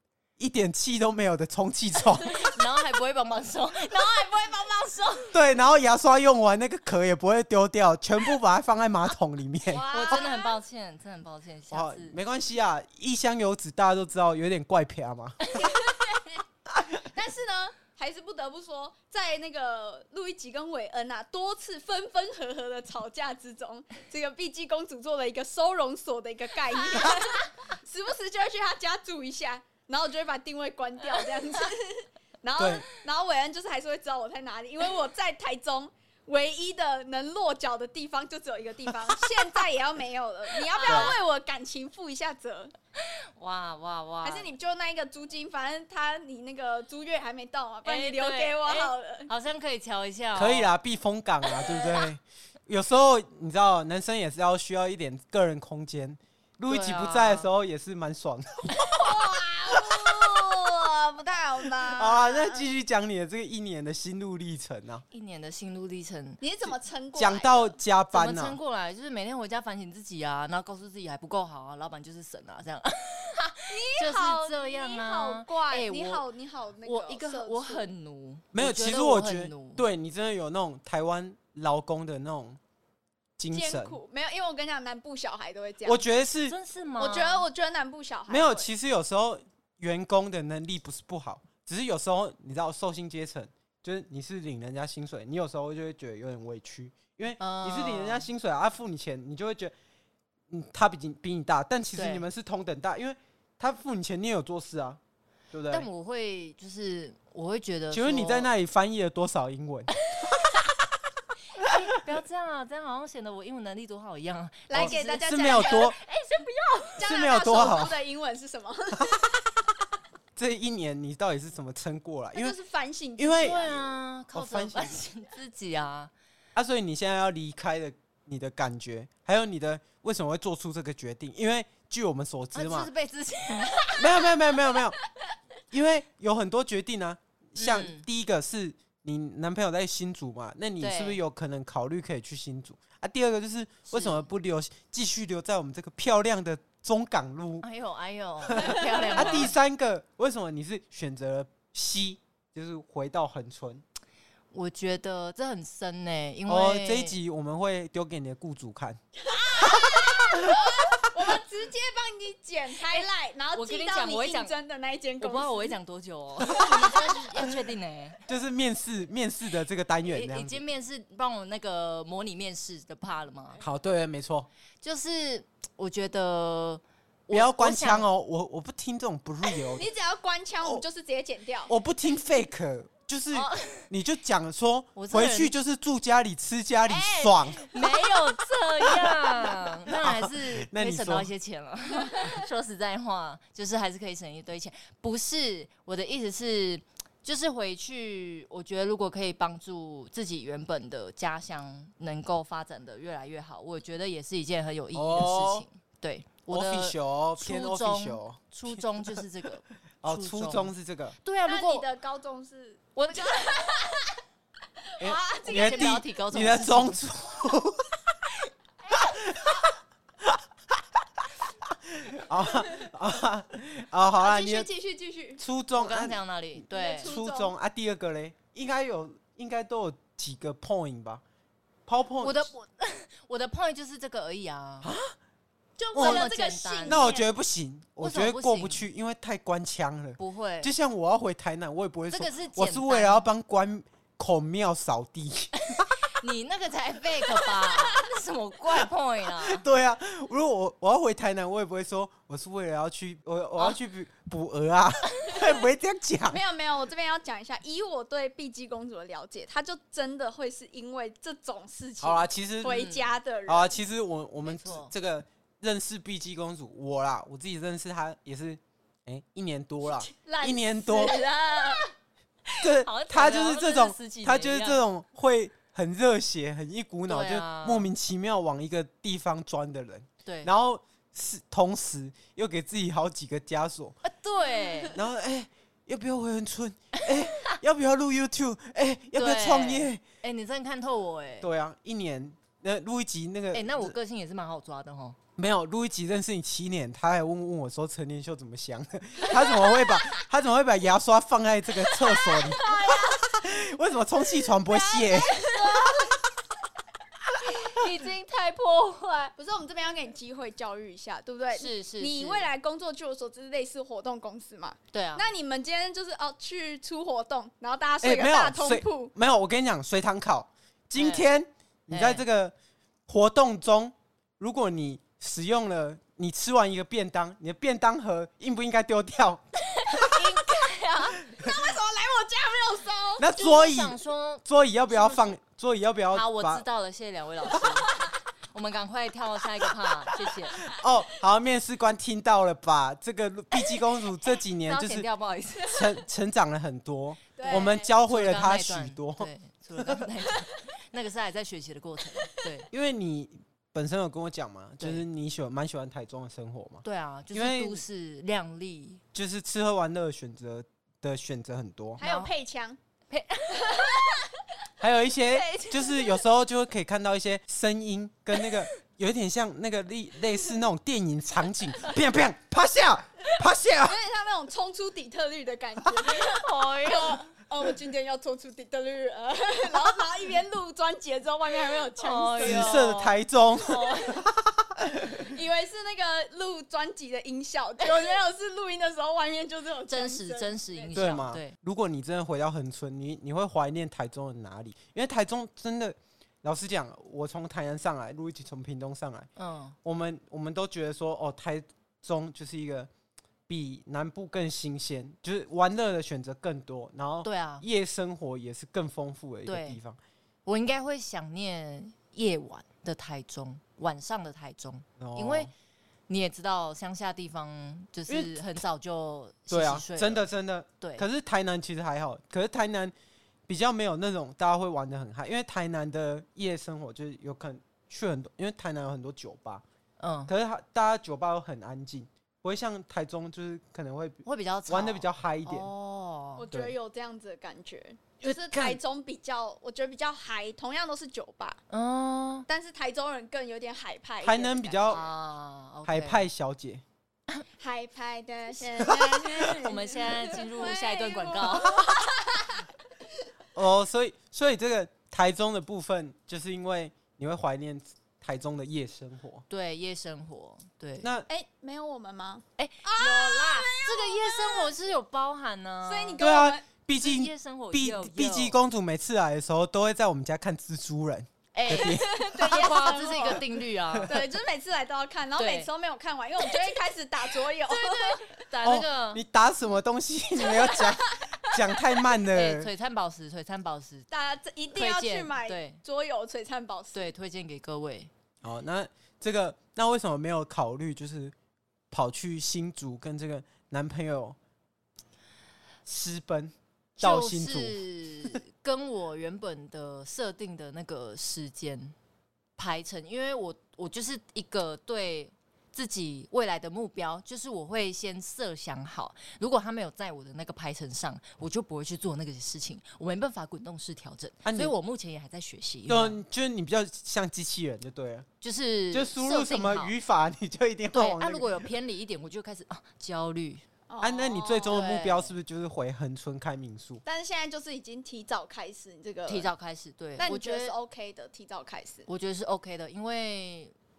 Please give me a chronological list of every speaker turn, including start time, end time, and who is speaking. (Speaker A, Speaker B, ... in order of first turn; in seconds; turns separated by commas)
Speaker A: 0.4-2.4, Speaker B: 2.2-5.3, Speaker A: 5.3-10.2, Speaker C: 9.7-10.6, Speaker B: 9.9-12.2, Speaker A: 11.7-15.7, Speaker C: 15.5-16.4, Speaker A: 16.7-17.0, Speaker C: 17.0-42.7, Speaker A: 32.6-32.8, Speaker B: 40.7-41.1, Speaker A: 40.9-41.1, Speaker B: 43.0-44.5, Speaker C: 44.2-49.3, Speaker B: 47.8-50.7, Speaker A: 50.4-59.2, Speaker B: 56.7-57.5, Speaker C: 58.9-62.7, Speaker A: 59.7-60.0, Speaker A: 61.8-65.0, Speaker B: 65.1-66.4, Speaker C: 66.4-67.8, Speaker A: 67.2-68.6, Speaker B: 68.1-76.2, Speaker C: 73.7-77.9, Speaker B: 76.8-79.8, Speaker A: 78.5-82.6, Speaker A: 83.4-84.0, Speaker C: 83.5-86.0, Speaker A: 85.8-86.5, Speaker B: 86.5-87.5, Speaker C: 87.0-88.7, Speaker A: 88.3-99.7, Speaker B: 97.4-98.3, Speaker A: 100.5-105.0, Speaker B: 101.9-102.2, Speaker A: 105.5-105.9, Speaker B: 105.7-108.5, Speaker A: 107.9-110.7, Speaker B: 111.5-115.9, Speaker C: 114.7-119.4, Speaker A: 114.7-116.0, Speaker A: 117.0-118.0, Speaker A: 118.9-119.3, Speaker A: 120.3-122.5, Speaker C: 122.3-123.6, Speaker A: 123.2-125.0, Speaker B: 123.4-126.1, Speaker A: 126.5-132.9, Speaker B: 132.5-134.2, Speaker A: 134.0-135.0, Speaker A: 135.7-147.7, Speaker B: 137.6-138.1, Speaker B: 140.8-141.2, Speaker B: 143.9-144.2, Speaker B: 147.6-149.5, Speaker A: 148.5-153.8, Speaker C: 149.0-149.3, Speaker B: 154.5-157.2, Speaker A: 156.5-159.0, Speaker C: 159.2-165.8, Speaker A: 159.6-160.7, Speaker B: 162.9-164.5, Speaker B: 165.2-168.2, Speaker A: 168.3-170.6, Speaker B: 170.0-173.6, Speaker A: 173.6-174.5, Speaker B: 174.8-178.1, Speaker A: 177.3-179.9, Speaker C: 179.8-181.7, Speaker A: 181.7-187.7, Speaker B: 183.3-183.9, Speaker B: 184.9-185.5, Speaker B: 186.9-210.7, Speaker A: 188.9-191.3, Speaker A: 204.9-205.7, Speaker A: 206.5-209.2, Speaker A: 210.0-211.2, Speaker B: 211.2-211.9, Speaker C: 211.4-214.1, Speaker B: 212.9-213.8, Speaker C: 215.0-215.9, Speaker A: 215.0-217.9, Speaker B: 215.4-217.0, Speaker A: 218.9-219.7, Speaker A: 220.2-224.7, Speaker C: 224.2-225.4, Speaker A: 225.4-231.2, Speaker B: 225.8-227.1, Speaker C: 226.7-227.5, Speaker A: 231.8-232.5, Speaker B: 232.2-234.9, Speaker A: 234.8-235.1, Speaker C: 235.8-237.3, Speaker B: 235.9-237.1, Speaker A: 235.9-236.3, Speaker A: 236.8-245.9, Speaker B: 238.0-238.8, Speaker B: 240.2-240.7, Speaker B: 242.1-243.3, Speaker B: 245.7-249.6, Speaker A: 249.3-256.4, Speaker C: 256.3-263.8, Speaker A: 262.0-262.8, Speaker B: 262.6-263.1, Speaker A: 263.5-271.2, Speaker B: 264.4-264.9, Speaker C: 269.9-271.8, Speaker A: 272.6-284.0, Speaker B: 272.8-274.8, Speaker B: 277.1-277.9, Speaker B: 280.2-280.5, Speaker B: 284.0-285.0, Speaker A: 284.9-290.0, Speaker B: 287.0-287.5, Speaker B: 289.1-291.5, Speaker A: 291.4-293.9, Speaker B: 293.5-295.2, Speaker A: 295.4-305.4, Speaker C: 302.1-303.2, Speaker C: 304.6-306.2, Speaker B: 307.5-309.3, Speaker C: 309.4-319.1, Speaker B: 311.5-312.5, Speaker B: 314.9-315.2, Speaker A: 318.0-322.5, Speaker B: 320.9-321.3, Speaker B: 321.9-322.2, Speaker A: 323.1-330.1, Speaker B: 329.7-331.2, Speaker C: 331.3-333.3, Speaker A: 333.2-336.6, Speaker B: 333.3-335.3, Speaker B: 336.1-337.9, Speaker B: 338.5-340.6, Speaker A: 340.6-345.1, Speaker B: 344.6-345.8, Speaker A: 345.7-350.1, Speaker C: 347.4-347.9, Speaker B: 347.5-352.7, Speaker A: 352.7-357.8, Speaker B: 356.8-359.0, Speaker A: 359.1-362.0, Speaker B: 362.0-362.3, Speaker C: 362.0-362.8, Speaker B: 363.1-364.1, Speaker C: 363.5-364.3, Speaker A: 364.8-374.0, Speaker B: 365.3-366.1, Speaker C: 373.8-382.9, Speaker B: 376.1-377.3, Speaker B: 382.0-384.2, Speaker A: 382.4-385.2, Speaker C: 385.0-391.2, Speaker B: 389.9-391.6, Speaker A: 390.9-399.3, Speaker B: 399.4-399.8, Speaker A: 399.8-402.9, Speaker A: 403.5-410.0, Speaker B: 407.2-407.6, Speaker B: 409.4-409.8, Speaker B: 410.4-415.5, Speaker A: 415.0-415.5, Speaker B: 416.1-420.3, Speaker A: 418.1-418.4, Speaker A: 419.5-422.9, Speaker B: 420.8-421.1, Speaker A: 423.5-429.6, Speaker B: 430.0-430.3, Speaker A: 430.3-435.7, Speaker B: 434.2-436.4, Speaker C: 436.4-441.6, Speaker A: 438.2-438.8, Speaker B: 441.7-442.5, Speaker C: 442.5-445.0, Speaker A: 444.2-445.0, Speaker B: 444.9-446.2, Speaker A: 445.9-446.8, Speaker C: 447.6-452.6, Speaker A: 448.8-449.5, Speaker B: 449.4-451.9, Speaker A: 453.5-459.4, Speaker B: 459.5-461.1, Speaker A: 461.0-461.3, Speaker C: 461.3-464.7, Speaker B: 462.6-466.3, Speaker C: 465.9-466.6, Speaker A: 466.2-472.6, Speaker B: 467.0-468.6, Speaker B: 471.5-474.2, Speaker C: 471.7-473.4, Speaker A: 473.9-474.2, Speaker C: 474.1-478.4, Speaker B: 475.4-475.7, Speaker B: 477.6-479.2, Speaker A: 478.6-482.7, Speaker C: 480.4-481.8, Speaker B: 482.3-484.1, Speaker C: 484.1-487.1, Speaker B: 484.7-485.8, Speaker B: 486.9-488.1, Speaker A: 488.4-491.3, Speaker A: 491.9-494.4, Speaker A: 495.9-497.8, Speaker B: 497.0-501.9, Speaker B: 502.6-516.2, Speaker A: 514.4-514.7, Speaker A: 515.9-518.3, Speaker B: 518.4-519.9, Speaker A: 518.9-521.7, Speaker B: 520.9-523.6, Speaker C: 523.9-524.8, Speaker A: 524.0-527.0, Speaker B: 524.6-525.3, Speaker C: 527.0-529.5, Speaker B: 529.3-530.7, Speaker C: 530.2-532.1, Speaker B: 532.1-533.7